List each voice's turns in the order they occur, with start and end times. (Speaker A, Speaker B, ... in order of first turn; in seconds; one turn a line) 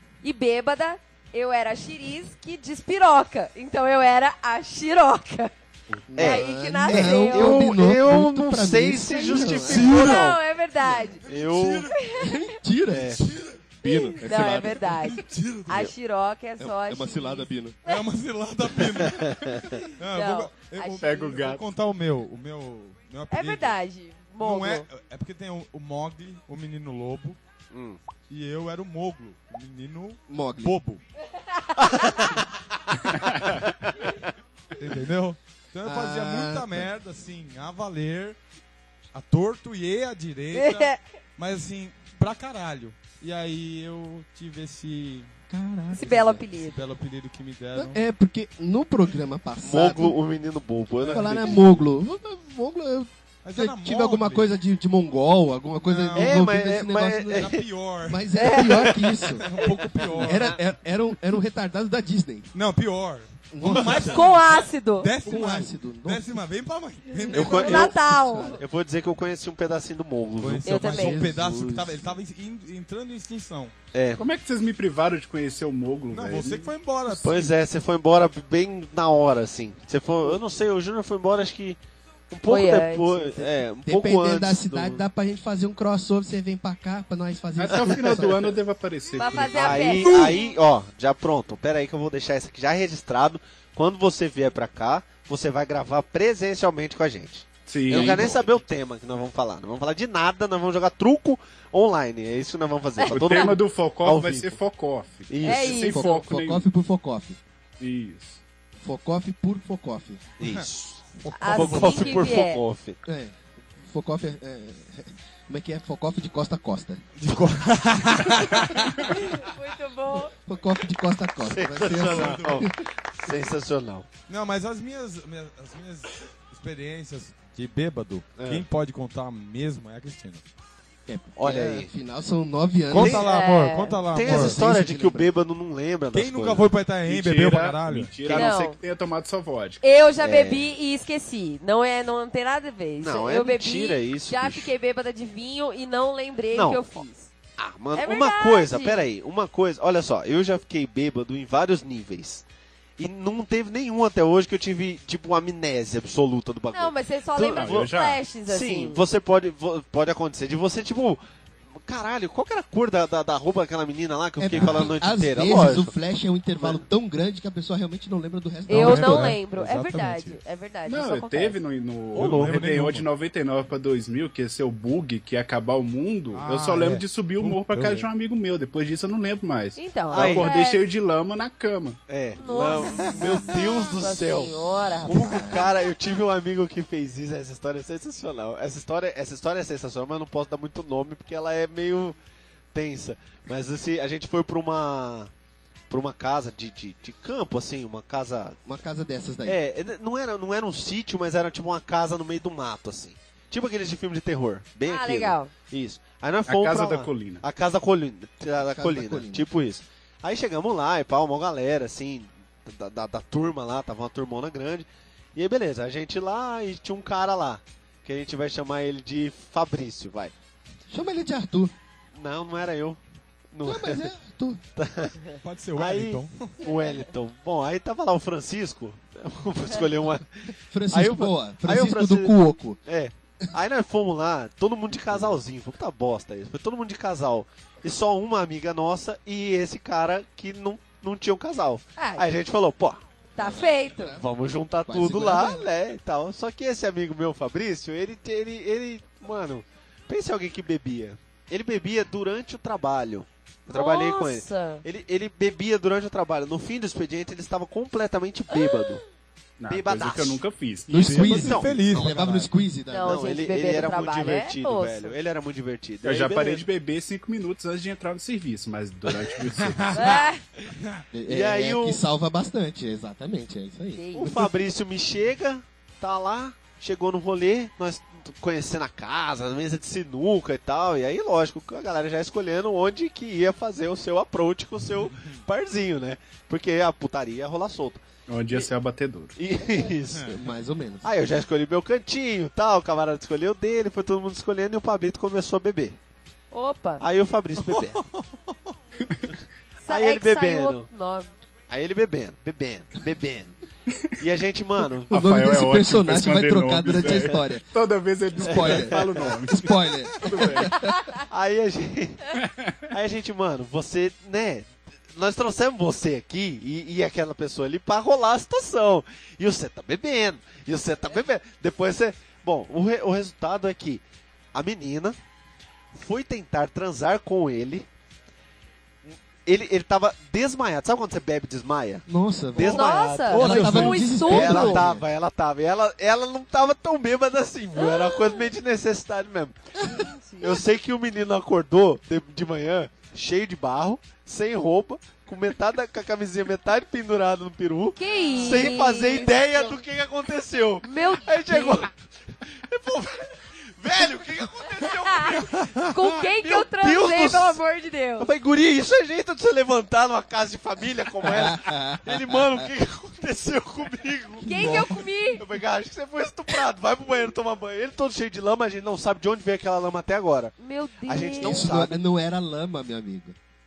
Speaker A: 0.2-5.5
Speaker B: 6.1-9.9
Speaker C: 6.2-10.4
Speaker A: 6.2-7.6
Speaker A: 9.2-11.2
Speaker D: 9.9-10.2
Speaker B: 10.8-11.2
Speaker D: 11.2-11.9
Speaker C: 11.3-11.9
Speaker A: 11.9-12.6
Speaker B: 12.2-14.9
Speaker C: 12.9-13.2
Speaker D: 13.2-15.8
Speaker A: 13.9-18.0
Speaker B: 16.6-17.8
Speaker D: 17.8-23.8
Speaker C: 19.0-19.7
Speaker A: 20.1-21.1
Speaker E: 21.0-21.6
Speaker A: 23.3-24.9
Speaker D: 24.4-27.4
Speaker C: 27.7-28.0
Speaker D: 28.3-31.0
Speaker B: 30.3-30.8
Speaker A: 31.4-32.3
Speaker C: 31.8-32.4
Speaker E: 33.1-33.6
Speaker D: 34.8-38.4
Speaker B: 35.8-36.9
Speaker D: 39.1-45.4
Speaker A: 40.5-41.0
Speaker B: 45.5-46.4
Speaker A: 45.9-46.8
Speaker D: 45.9-48.0
Speaker B: 47.7-50.2
Speaker C: 49.6-51.6
Speaker B: 51.1-57.5
Speaker D: 53.4-54.5
Speaker D: 55.8-56.4
Speaker C: 56.1-57.6
Speaker D: 57.3-60.6
Speaker B: 58.0-59.5
Speaker A: 58.3-59.0
Speaker B: 60.2-62.5
Speaker D: 62.5-67.9
Speaker B: 63.5-64.3
Speaker A: 63.7-65.1
Speaker B: 65.2-66.4
Speaker A: 67.3-68.6
Speaker C: 67.3-67.9
Speaker B: 67.3-68.6
Speaker C: 68.6-70.7
Speaker D: 70.4-73.7
Speaker A: 70.6-71.2
Speaker B: 70.7-72.2
Speaker C: 73.9-74.2
Speaker E: 74.2-76.7
Speaker D: 76.1-77.5
Speaker C: 77.2-81.8
Speaker C: 82.3-85.0
Speaker A: 82.5-83.4
Speaker B: 83.8-88.4
Speaker E: 87.6-90.4
Speaker A: 89.2-90.4
Speaker C: 89.5-104.6
Speaker E: 97.7-98.5
Speaker A: 103.0-103.5
Speaker E: 103.1-106.7
Speaker C: 105.3-106.1
Speaker A: 105.4-106.1
Speaker B: 105.8-107.4
Speaker E: 107.8-108.4
Speaker B: 108.8-110.2
Speaker C: 110.4-113.0
Speaker D: 111.2-112.3
Speaker A: 111.3-112.6
Speaker B: 113.0-117.0
Speaker D: 117.2-119.2
Speaker A: 119.0-120.3
Speaker B: 120.1-122.7
Speaker C: 121.4-124.1
Speaker D: 121.9-122.7
Speaker D: 124.3-130.4
Speaker C: 128.4-128.7
Speaker B: 131.1-133.2
Speaker C: 131.4-131.9
Speaker D: 132.9-134.6
Speaker C: 132.9-133.2
Speaker A: 133.1-134.0
Speaker C: 134.1-136.7
Speaker B: 134.1-135.3
Speaker D: 136.1-138.4
Speaker E: 137.1-139.8
Speaker A: 138.3-138.8
Speaker A: 139.8-147.3
Speaker C: 140.2-140.7
Speaker C: 143.0-144.7
Speaker C: 146.5-146.9
Speaker C: 147.6-152.4
Speaker A: 147.9-149.0
Speaker C: 153.0-157.9
Speaker A: 156.7-159.0
Speaker E: 157.4-158.2
Speaker C: 158.4-161.2
Speaker C: 161.8-165.9
Speaker B: 164.4-169.4
Speaker D: 164.5-165.0
Speaker C: 166.6-166.8
Speaker A: 168.7-171.6
Speaker D: 168.7-170.4
Speaker E: 170.8-182.0
Speaker D: 172.1-173.1
Speaker D: 176.3-178.1
Speaker A: 179.8-180.8
Speaker C: 180.1-180.5
Speaker C: 182.1-192.2
Speaker A: 182.3-185.6
Speaker B: 183.0-183.6
Speaker B: 185.0-185.7
Speaker C: 192.7-195.3
Speaker C: 195.9-198.6
Speaker B: 198.7-199.6
Speaker C: 199.4-220.3
Speaker A: 204.8-205.5
Speaker E: 206.5-207.4
Speaker B: 208.6-209.4
Speaker B: 220.9-221.7
Speaker C: 222.2-223.0
Speaker C: 223.5-224.1
Speaker B: 223.6-224.6
Speaker C: 224.8-225.2
Speaker D: 225.4-226.6
Speaker C: 225.8-243.0
Speaker A: 226.6-227.1
Speaker B: 230.7-232.8
Speaker A: 242.0-242.3
Speaker A: 243.3-244.2
Speaker B: 243.4-244.2
Speaker C: 244.2-259.0
Speaker B: 244.9-245.7
Speaker A: 253.7-254.8
Speaker A: 258.5-258.9
Speaker E: 259.6-261.6
Speaker C: 259.7-260.4
Speaker B: 260.9-263.4
Speaker D: 261.0-262.5
Speaker C: 261.1-262.4
Speaker A: 262.9-265.1
Speaker C: 263.0-266.6
Speaker E: 266.0-270.0
Speaker D: 269.4-271.0
Speaker A: 269.9-270.4
Speaker B: 271.1-274.0
Speaker C: 271.3-272.0
Speaker A: 273.9-274.4
Speaker C: 274.1-288.7
Speaker D: 285.1-285.4
Speaker E: 288.3-289.4
Speaker C: 289.4-290.3
Speaker B: 290.2-291.1
Speaker C: 291.0-295.9
Speaker A: 296.5-297.0
Speaker C: 297.0-298.0
Speaker D: 297.6-298.6
Speaker E: 299.1-299.3
Speaker A: 299.8-301.3
Speaker C: 299.9-300.9
Speaker C: 301.7-303.5
Speaker C: 304.2-305.1
Speaker B: 305.1-307.6
Speaker E: 305.1-310.8
Speaker B: 308.4-311.0
Speaker C: 308.4-309.4
Speaker A: 310.8-311.2
Speaker C: 311.3-312.3
Speaker E: 312.4-312.9
Speaker C: 312.9-324.0
Speaker C: 324.5-325.2
Speaker C: 325.9-327.9
Speaker C: 329.1-357.6
Speaker B: 332.1-335.1
Speaker A: 332.6-334.8
Speaker D: 332.6-334.1
Speaker A: 337.8-338.5
Speaker A: 339.8-340.6
Speaker A: 347.9-349.8
Speaker D: 348.3-348.7
Speaker A: 350.8-351.9
Speaker A: 354.8-358.3
Speaker C: 358.2-372.0
Speaker B: 361.2-362.7
Speaker B: 364.4-365.1
Speaker A: 364.4-365.4
Speaker A: 370.6-371.7
Speaker B: 371.4-373.4